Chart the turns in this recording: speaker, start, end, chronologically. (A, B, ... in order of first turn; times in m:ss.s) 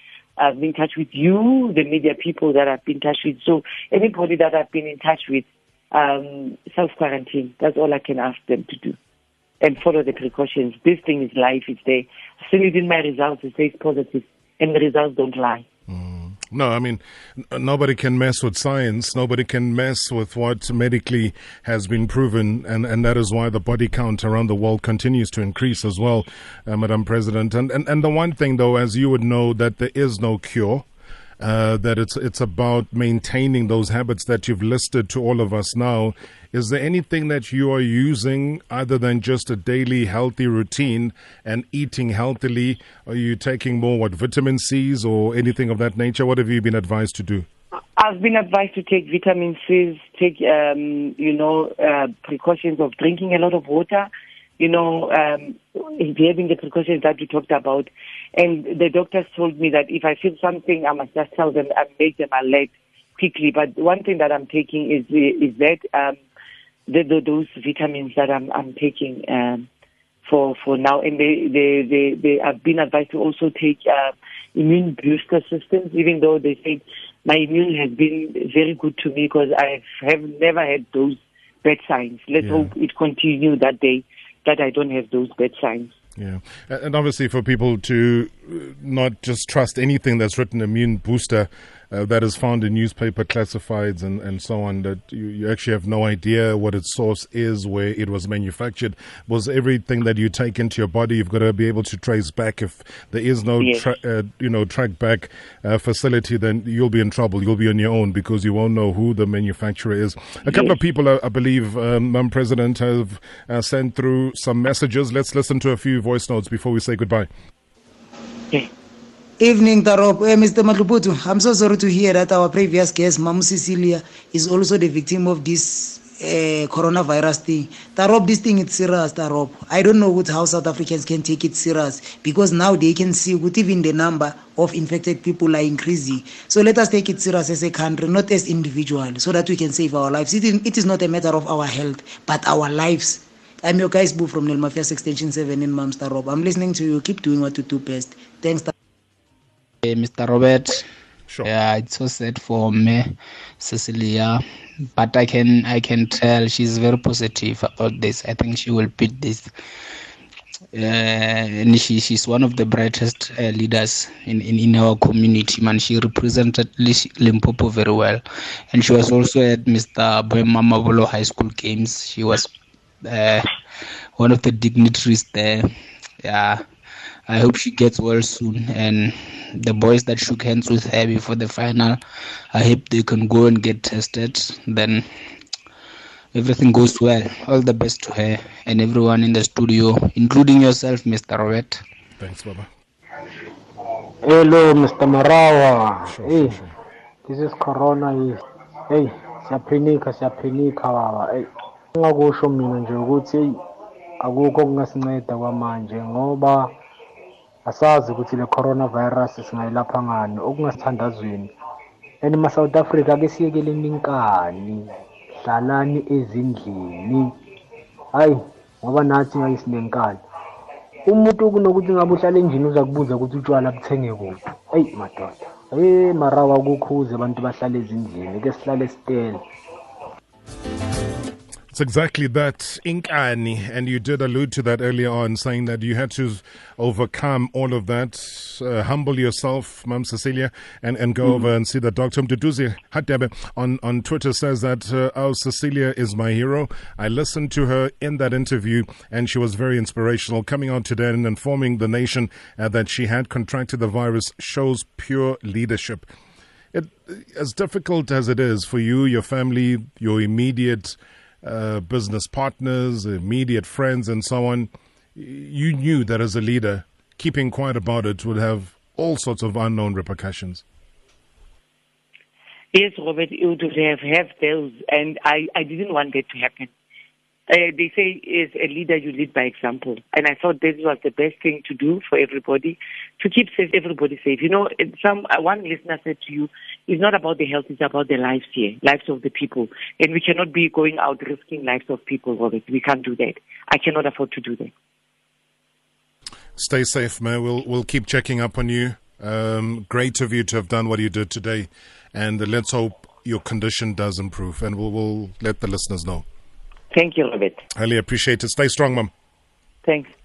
0:00.4-0:09.0 A
0:09.6-0:15.6 A
0:15.9-0:30.8 B
0:31.4-0:47.4 B
0:48.0-1:06.2 A
1:06.9-1:09.7 A
1:10.2-1:25.9 A
1:22.4-1:22.7 B
1:26.2-1:57.3 B
1:43.6-1:43.8 A
1:50.5-1:50.8 A
1:59.4-2:28.7 C
2:29.8-2:30.8 D
2:31.4-2:33.1 D
2:33.6-2:34.4 D
2:35.0-2:39.4 D
2:40.7-2:48.2 D
2:48.7-2:52.5 D
2:53.0-2:53.5 D
2:54.2-2:55.7 D
2:56.2-2:56.6 D
2:57.3-3:02.0 D
3:02.5-3:05.0 D
3:06.3-3:11.8 D
3:12.2-3:12.7 B
3:14.2-3:16.6 E
3:16.1-3:16.7 B
3:17.2-3:18.3 E
3:18.9-3:23.6 E
3:24.2-3:26.8 E
3:27.6-3:31.5 E
3:32.2-3:37.3 E
3:38.1-3:40.2 E
3:41.0-3:49.4 E
3:51.7-4:16.1 B
4:16.7-4:30.6 B
4:32.7-4:36.7 A
4:37.5-4:54.7 A
4:56.6-5:06.2 B
5:06.9-5:07.6 A
5:07.8-5:09.1 B
5:09.8-5:10.1 A